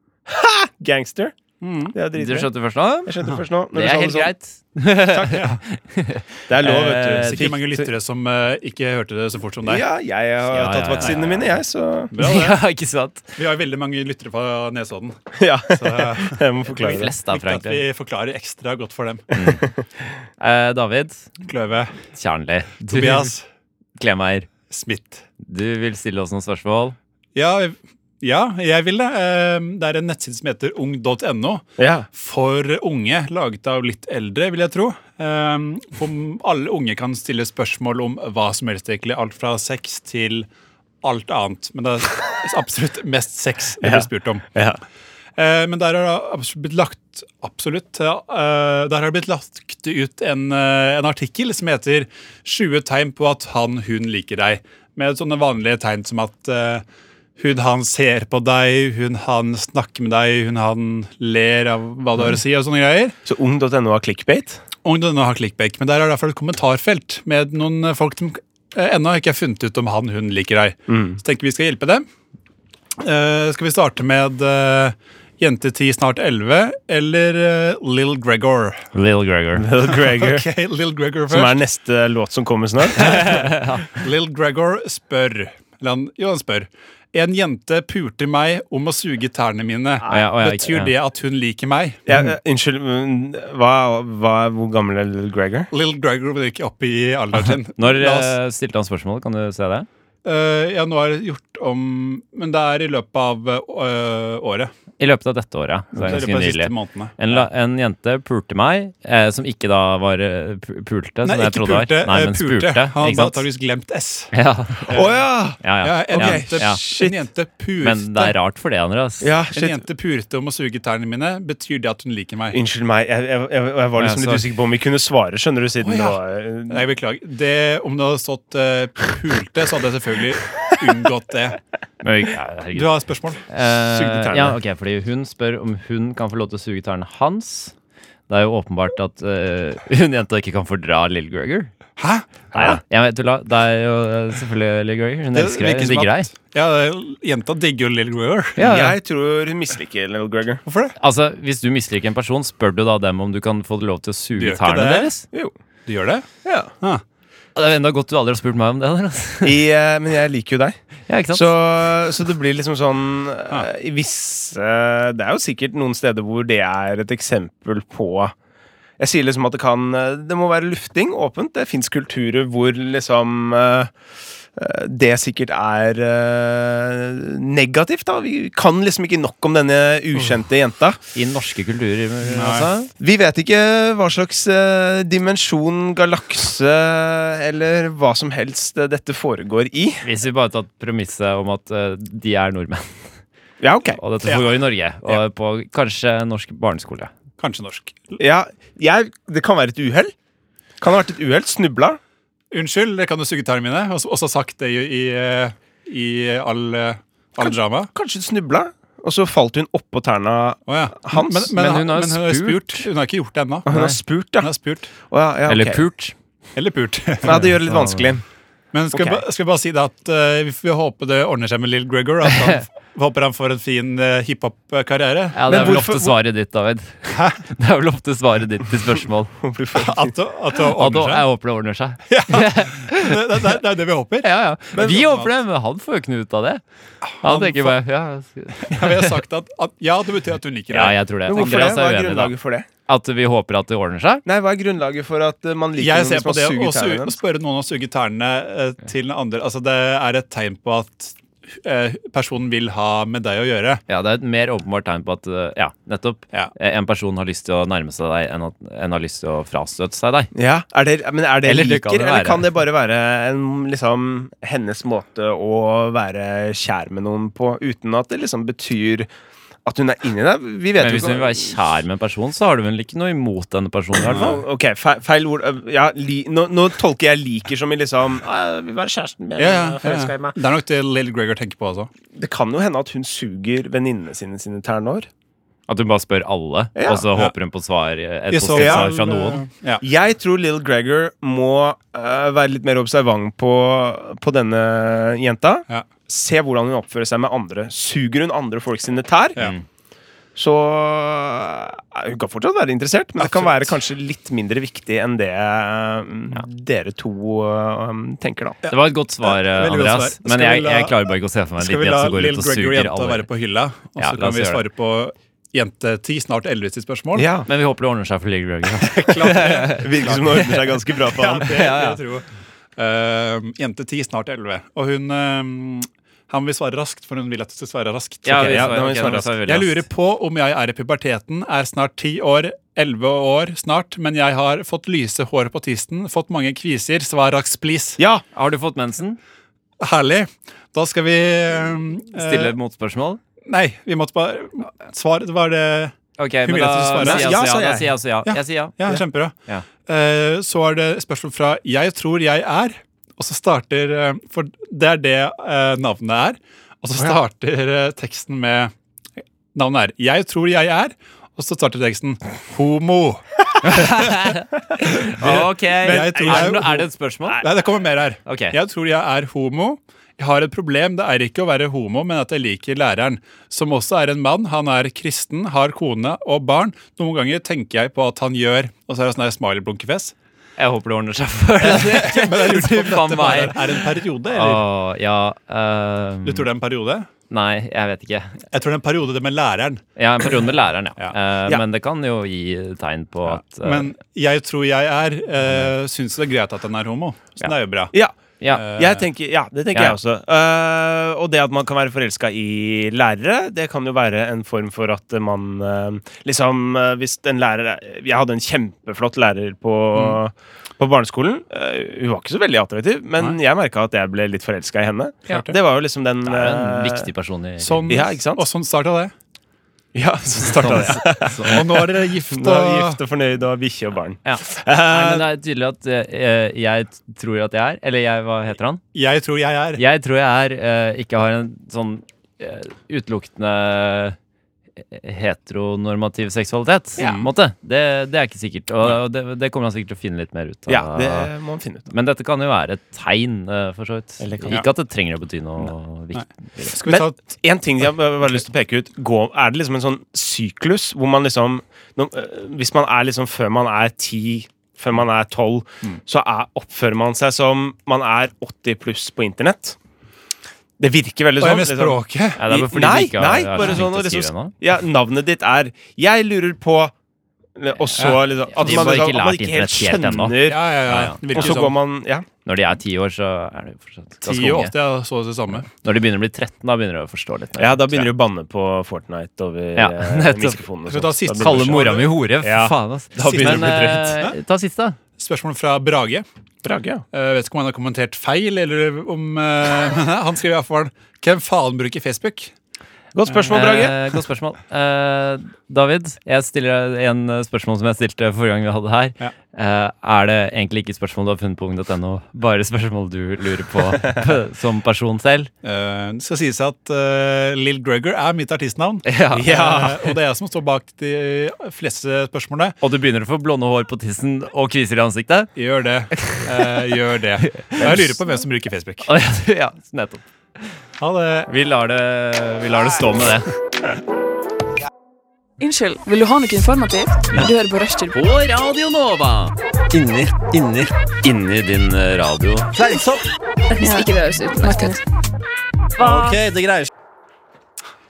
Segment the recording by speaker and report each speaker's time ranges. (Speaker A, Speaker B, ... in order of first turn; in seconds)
Speaker A: 0.3-1.4, 1.9-2.5, 3.0-4.3, 5.1-5.4, 6.5-7.9, 9.6-12.1, 15.3-17.1, 19.4-19.8, 31.8-32.1, 43.8-44.8, 63.2-64.6, 70.9-71.2, 79.5-80.5, 81.3-83.4, 92.1-95.7, 114.9-117.2, 119.2-119.8, 122.5-126.8, 133.8-134.6, 142.5-142.8, 148.6-150.6, 156.4-156.7, 159.4-160.8, 161.3-168.3, 169.0-173.9, 174.5-181.0, 183.0-190.1, 193.6-194.0, 198.2-200.1, 200.8-202.0, 207.4-211.5, 213.7-214.5, 215.0-215.8, 217.2-218.2, 218.9-219.2, 225.5-226.1, 229.4-230.2, 234.7-235.1, 241.2-242.7, 244.2-247.2, 260.3-269.1, 269.6-271.6, 274.0-280.4, 282.1-285.1, 286.7-287.1, 288.6-288.9, 289.8-299.4, 300.4-308.6, 317.1-317.5, 319.6-321.8, 328.3-329.4, 338.0-338.2, 347.0-347.9, 365.8-367.4, 397.9-417.1, 417.9-418.4, 419.9-425.3, 437.0-437.3, 440.7-441.9, 444.2-444.6, 446.8-459.8, 460.8-466.9, 467.6-470.7, 471.2-472.2, 477.6-484.2, 486.6-487.0, 493.1-493.9, 509.3-510.1
Speaker B: 1.6-1.9, 5.3-5.6, 7.1-9.8, 12.1-12.6, 13.4-15.2, 15.7-19.3, 21.4-22.0, 22.9-23.4, 24.7-25.2, 27.3-40.5, 41.0-44.5, 45.4-56.8, 57.4-63.1, 64.8-72.0, 73.0-78.9, 79.9-81.6, 83.9-92.0, 95.7-98.3, 100.2-104.7, 105.9-107.5, 111.2-114.3, 114.9-118.3, 119.5-122.6, 125.8-131.6, 132.7-133.4, 142.0-142.2, 145.3-148.6, 150.7-150.9, 154.3-155.1, 155.9-156.2, 182.3-182.7, 194.2-195.2, 197.4-198.2, 202.5-207.9, 210.7-213.8, 214.4-214.9, 216.5-217.4, 218.7-226.1, 227.1-227.4, 229.7-231.2, 232.1-235.3, 237.1-237.8, 238.6-241.0, 245.8-253.8, 274.1-274.4, 279.4-281.9, 288.3-289.8, 303.2-303.7, 308.6-317.3, 318.8-320.4, 321.1-322.2, 322.8-328.7, 329.4-338.0, 339.8-342.5, 343.4-347.4, 348.2-358.7, 359.5-364.2, 364.9-380.1, 381.6-384.6, 386.2-387.1, 388.5-389.8, 393.3-397.9, 398.5-399.1, 417.6-419.1, 420.6-423.0, 428.9-429.8, 437.0-437.3, 446.1-447.3, 461.4-462.4, 468.0-468.9, 470.4-471.8, 474.2-475.7, 480.9-482.1, 483.2-484.3, 485.2-486.2, 487.1-492.5, 493.3-493.5, 505.6-512.8, 515.5-519.1, 521.0-521.5, 536.0-536.9
Speaker C: 2.1-3.1, 3.7-7.4, 10.5-11.5, 12.1-13.3, 16.7-17.8, 19.3-19.6, 20.4-21.3, 22.1-23.3, 24.0-24.5, 25.4-26.9, 78.9-79.7, 83.0-83.8, 90.1-90.9, 97.7-99.9, 105.0-113.4, 114.3-115.0, 115.6-116.8, 117.8-119.3, 124.0-124.5, 132.0-132.9, 133.5-137.7, 138.3-141.7, 142.5-146.3, 148.6-148.9, 151.0-155.2, 157.6-159.6, 161.1-161.5, 181.1-182.9, 190.0-193.0, 194.0-197.1, 211.5-212.9, 213.7-214.0, 215.5-216.1, 217.3-218.1, 222.3-222.6, 225.3-229.3, 230.7-233.2, 234.2-236.6, 237.2-239.1, 240.7-242.3, 242.9-244.2, 253.9-260.3, 261.4-262.4, 270.8-274.4, 285.7-289.4, 299.4-299.6, 308.7-313.2, 313.9-314.6, 317.5-320.6, 321.4-322.0, 328.2-329.8, 338.3-339.2, 342.1-343.2, 346.2-348.8, 363.6-367.4, 368.2-368.5, 380.6-386.5, 387.3-388.4, 389.9-393.9, 416.2-418.0, 420.6-421.6, 424.2-428.8, 429.8-434.1, 434.8-441.3, 441.9-446.8, 462.4-464.5, 468.0-471.6, 472.4-474.7, 475.6-478.1, 479.7-480.6, 481.4-485.0, 493.5-505.5, 509.1-509.8, 512.8-515.5, 516.1-516.7, 517.5-517.9, 519.0-520.2, 521.5-523.5, 528.1-532.9
Speaker D: 525.6-528.2, 533.7-535.0